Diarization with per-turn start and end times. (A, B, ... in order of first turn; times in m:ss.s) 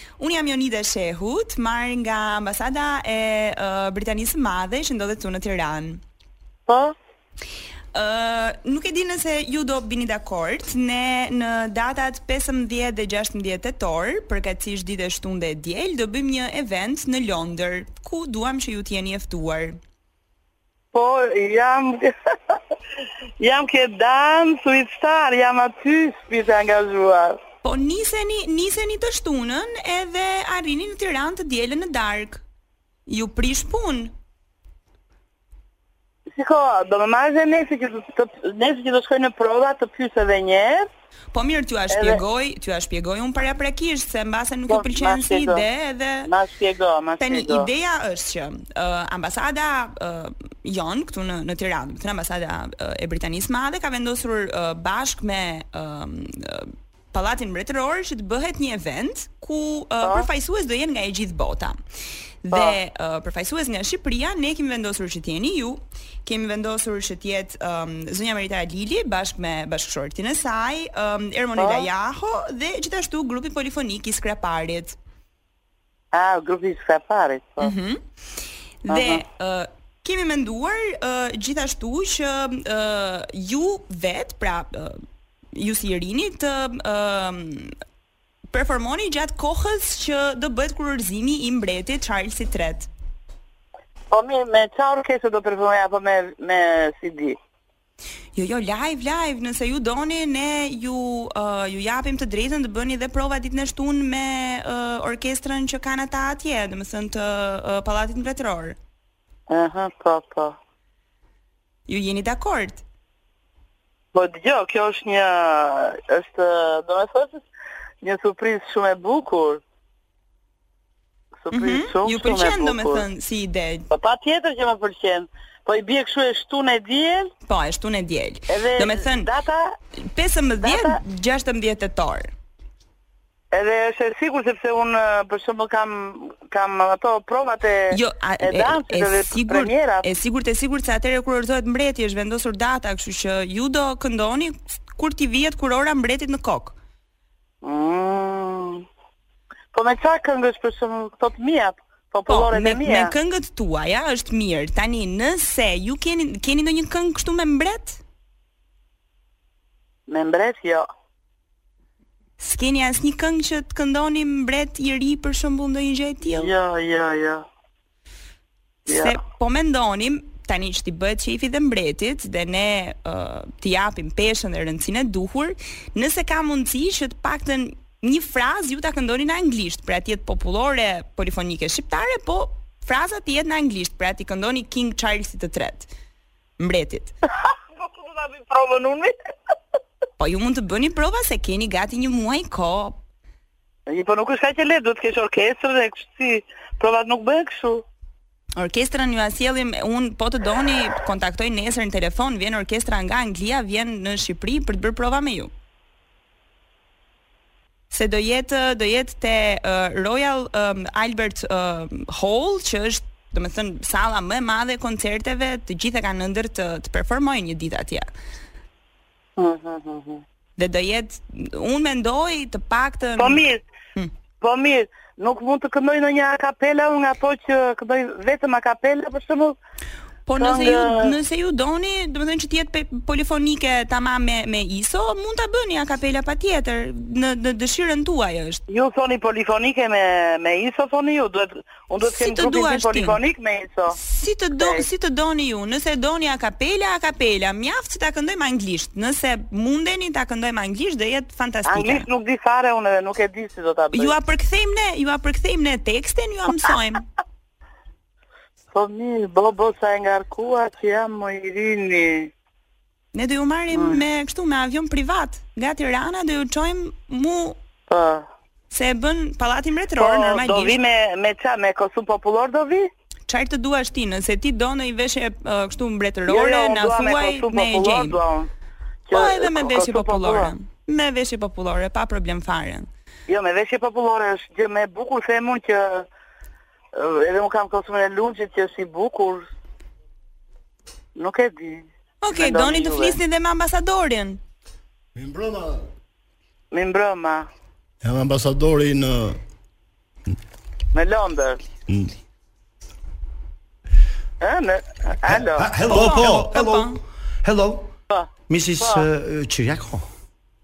0:00.2-0:06.0 A
0:06.7-0:06.9 B
0:07.9-0:19.8 A
0:20.9-0:22.1 B
0:23.4-0:27.4 B
0:27.6-0:32.4 A
0:33.1-0:34.1 A
0:36.3-0:40.9 B
0:41.3-0:46.3 A
0:41.9-0:42.2 B
0:44.7-0:45.6 B
0:46.2-0:47.7 B
0:47.2-1:01.8 A
1:02.4-1:15.0 A
1:02.5-1:02.8 B
1:11.6-1:11.9 B
1:16.1-1:17.7 B
1:17.6-1:18.0 A
1:18.8-1:25.0 A
1:18.9-1:19.2 B
1:25.5-1:27.7 A
1:28.5-1:32.9 A
1:34.1-1:37.4 B
1:38.3-1:48.8 A
1:49.5-1:50.6 B
1:51.9-1:52.8 A
1:54.1-1:57.4 B
1:58.0-1:59.6 B
2:01.4-2:03.0 B
2:01.5-2:03.9 A
2:03.9-2:07.3 B
2:07.4-2:09.3 A
2:08.5-2:09.7 B
2:10.1-2:12.3 A
2:10.6-2:11.0 B
2:13.5-2:20.0 B
2:17.9-2:26.7 A
2:27.6-2:28.8 B
2:29.7-2:33.1 B
2:32.3-2:38.0 A
2:40.1-2:40.9 B
2:42.4-2:46.5 A
2:46.4-2:47.4 B
2:48.9-2:49.1 B
2:48.9-3:05.9 A
3:06.6-3:07.1 A
3:07.4-3:09.1 B
3:10.2-3:13.0 A
3:13.9-3:17.8 B
3:18.6-3:25.5 A
3:27.9-3:38.1 A
3:39.4-3:40.2 B
3:40.6-3:43.4 A
3:43.2-3:43.6 B
3:44.4-3:49.6 B
3:50.3-3:58.6 A
3:50.4-3:51.1 B
3:58.7-4:04.0 B
4:02.1-4:03.2 A
4:03.9-4:12.0 A
4:04.6-4:04.8 B
4:11.6-4:14.1 B
4:13.9-4:17.0 A
4:18.7-4:22.3 B
4:23.1-4:27.6 A
4:23.7-4:24.0 B
4:27.9-4:28.2 B
4:28.7-4:30.8 A
4:30.0-4:32.9 B
4:33.3-4:38.2 A
4:36.3-4:38.5 B
4:39.1-4:40.5 B
4:39.1-4:42.9 A
4:43.3-4:46.0 B
4:46.9-4:49.5 B
4:51.2-4:53.2 B
4:52.2-4:54.4 A
4:55.1-4:55.8 C
4:56.7-4:57.5 B
4:58.0-4:59.4 C
5:00.9-5:01.6 B
5:01.9-5:02.1 C
5:04.4-5:05.7 B
5:05.4-5:07.9 D
5:05.9-5:06.5 C
5:05.9-5:07.0 A
5:08.1-5:09.0 B
5:08.5-5:10.0 D